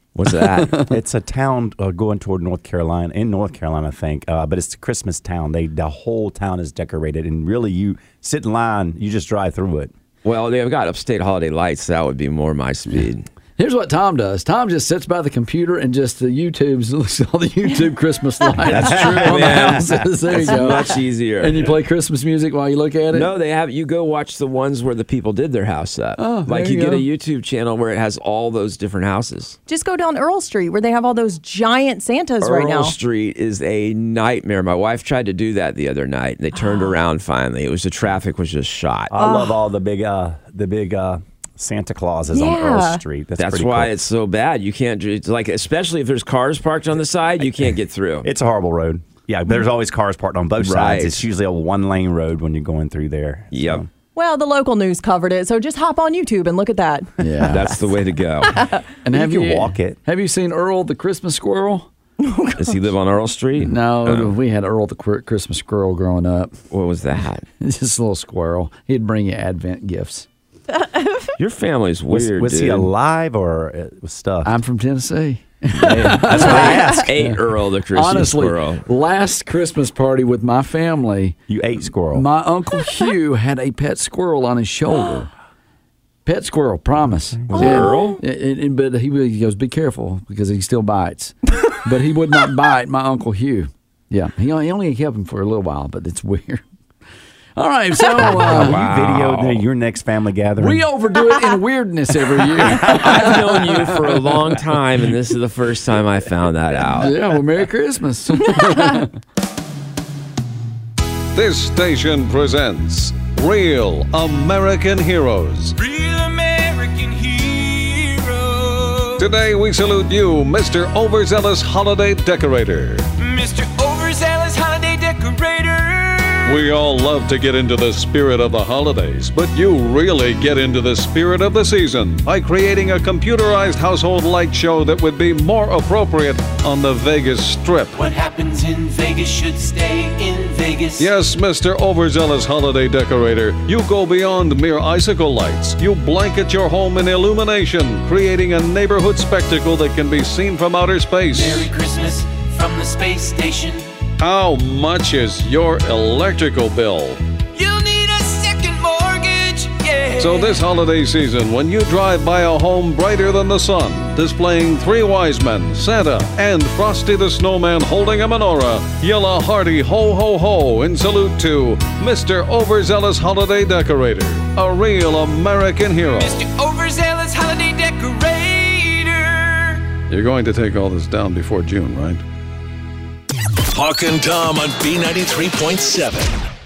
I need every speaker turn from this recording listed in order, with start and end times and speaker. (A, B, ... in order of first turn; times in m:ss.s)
0:00.1-0:00.9 A
0:00.8-0:09.9 B
0:10.2-0:13.3 A
0:13.6-0:23.3 C
0:18.7-0:21.7 A
0:18.8-0:19.7 B
0:23.1-0:29.6 A
0:26.2-0:27.0 C
0:29.7-0:32.9 D
0:32.4-0:39.1 A
0:36.6-0:36.9 D
0:39.1-0:43.9 B
0:39.2-0:39.5 D
0:42.3-0:43.0 D
0:43.4-0:48.3 A
0:48.2-0:53.9 B
0:50.6-0:51.2 A
0:53.5-0:53.8 A
0:54.1-0:57.6 D
0:57.2-0:57.7 C
0:57.5-0:58.6 A
0:58.4-0:58.8 D
0:59.0-1:01.9 C
0:59.1-1:00.0 B
1:02.2-1:02.8 D
1:02.6-1:04.3 A
1:03.6-1:06.5 C
1:06.7-1:07.4 A
1:07.6-1:10.3 C
1:10.7-1:11.3 D
1:11.4-1:12.9 A
1:12.1-1:14.6 B
1:14.4-1:17.4 C
1:15.8-1:18.8 A
1:15.8-1:17.1 B
1:17.9-1:21.4 C
1:21.5-1:22.2 B
1:22.1-1:25.3 C
1:26.2-1:36.6 C
1:27.3-1:27.8 B
1:27.5-1:28.2 A
1:27.6-1:28.2 D
1:37.6-1:38.8 C
1:38.2-1:40.8 B
1:38.3-1:39.6 A
1:40.6-1:44.1 C
1:42.8-1:47.1 A
1:42.9-1:43.3 B
1:47.0-1:49.1 C
1:51.3-1:55.7 E
1:59.2-2:03.1 E
2:06.4-2:18.0 E
2:18.1-2:21.0 F
2:21.0-2:31.7 E
2:31.6-2:33.7 F
2:34.2-2:37.2 E
2:38.4-2:39.0 F
2:40.2-2:56.4 E
2:56.3-2:59.2 F
3:00.1-3:02.2 E
3:03.7-3:06.4 G